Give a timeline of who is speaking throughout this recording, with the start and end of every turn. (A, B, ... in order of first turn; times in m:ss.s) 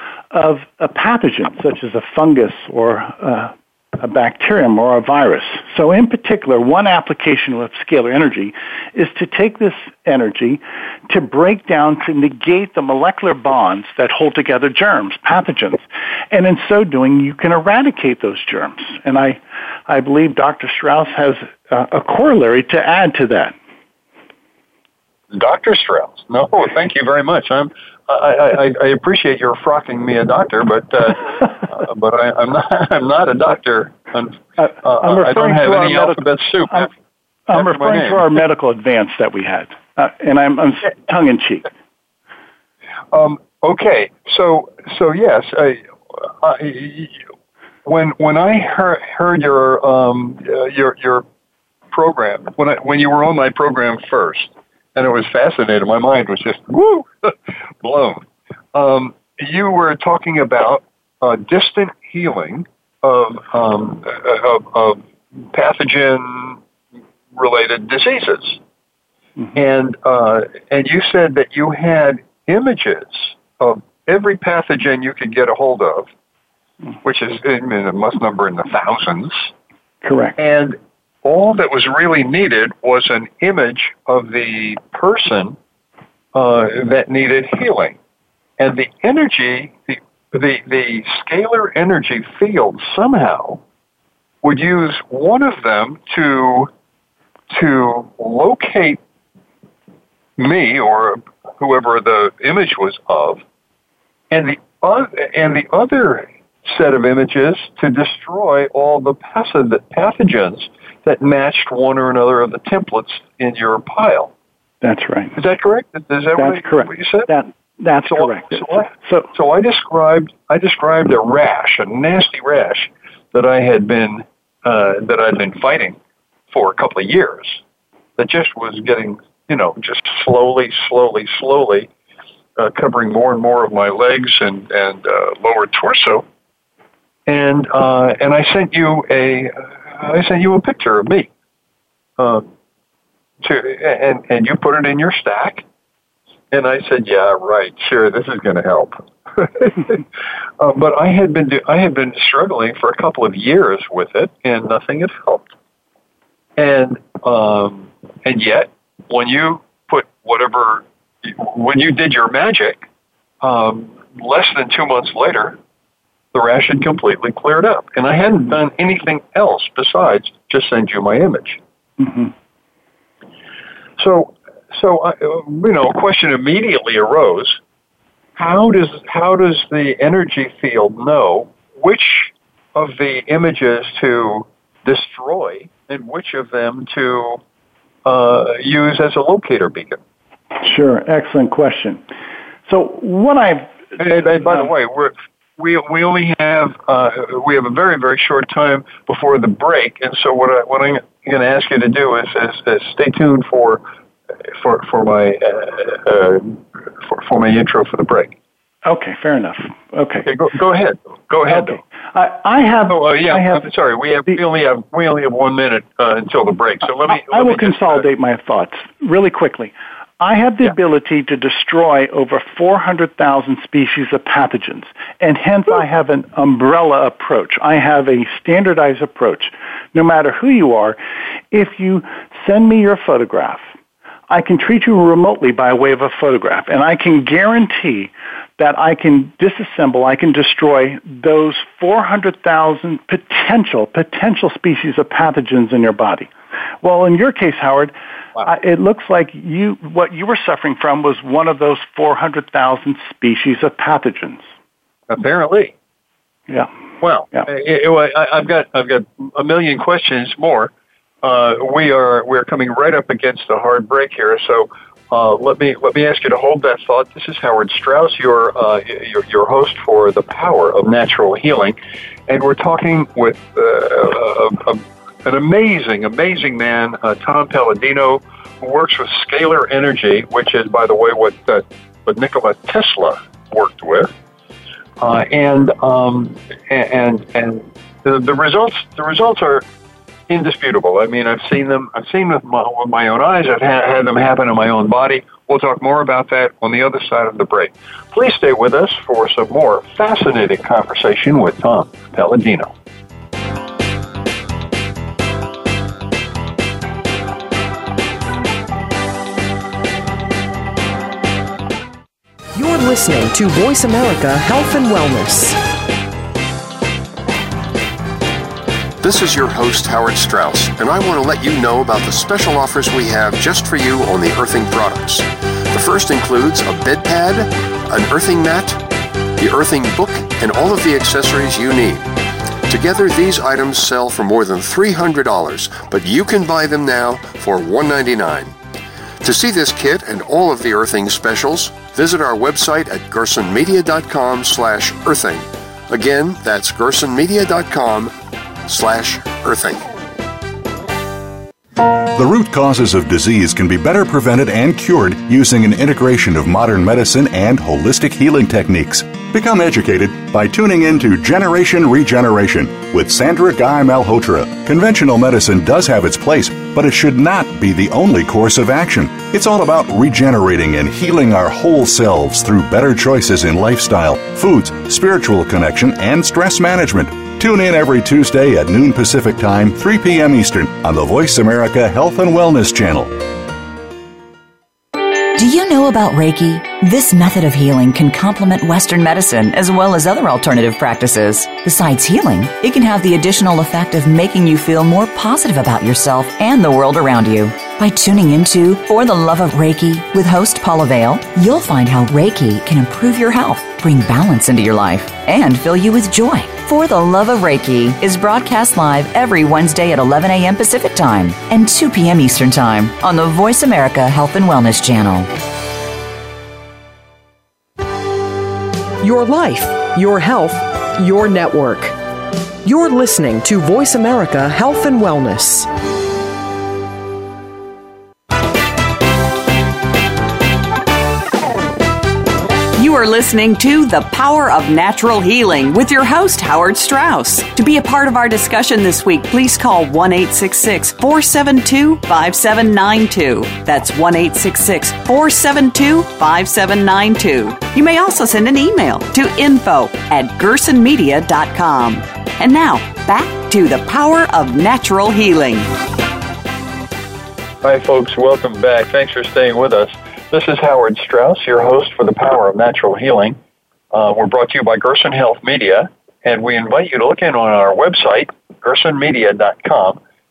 0:00.3-0:23.5 A
0:25.3-0:36.9 B
0:34.6-0:36.9 A
0:37.5-0:41.7 A
0:37.5-0:38.3 B
0:43.1-0:47.2 B
0:47.8-0:51.2 B
0:51.9-1:06.6 B
1:07.3-1:08.6 B
1:09.5-1:16.1 B
1:17.0-1:19.5 B
1:20.0-1:20.4 A
1:20.4-1:25.6 B
1:26.3-1:28.0 B
1:28.6-1:33.6 B
1:34.4-1:36.7 B
1:37.5-1:39.0 B
1:40.4-1:43.4 B
1:44.3-1:54.3 B
1:54.8-1:55.4 A
1:55.4-1:57.3 B
1:56.4-1:59.3 A
1:58.0-2:06.0 B
2:06.5-2:07.6 B
2:08.2-2:11.9 B
2:12.6-2:16.2 B
2:17.3-2:21.3 B
2:22.2-2:22.5 B
2:23.4-2:25.6 B
2:26.5-2:30.0 B
2:30.6-2:35.5 B
2:36.6-2:42.8 B
2:43.4-2:45.6 B
2:46.3-2:51.6 B
2:52.0-2:52.3 A
2:54.0-2:57.6 B
2:58.4-3:07.4 B
3:08.0-3:10.0 B
3:10.6-3:12.0 A
3:12.7-3:13.8 A
3:14.0-3:23.8 B
3:24.4-3:28.3 B
3:28.8-3:30.3 A
3:30.2-3:31.8 B
3:31.5-3:33.6 A
3:32.9-3:38.0 B
3:37.0-3:51.0 A
3:51.5-3:53.7 A
3:54.3-4:06.3 A
4:06.8-4:14.4 A
4:15.1-4:15.7 B
4:17.0-4:20.7 B
4:21.2-4:31.8 B
4:32.3-4:44.1 B
4:45.0-4:49.6 B
4:50.3-5:02.7 B
5:12.5-5:15.6 C
5:19.0-5:28.8 D
5:29.4-5:32.1 D
5:32.7-5:38.5 D
5:39.2-5:48.1 D
5:48.6-5:49.9 D
5:52.1-6:23.2 E
6:25.3-6:55.3 F
6:59.0-7:02.0 C
7:02.6-7:05.7 C
7:12.8-7:35.7 G
7:37.6-7:43.4 B
7:43.9-7:50.0 B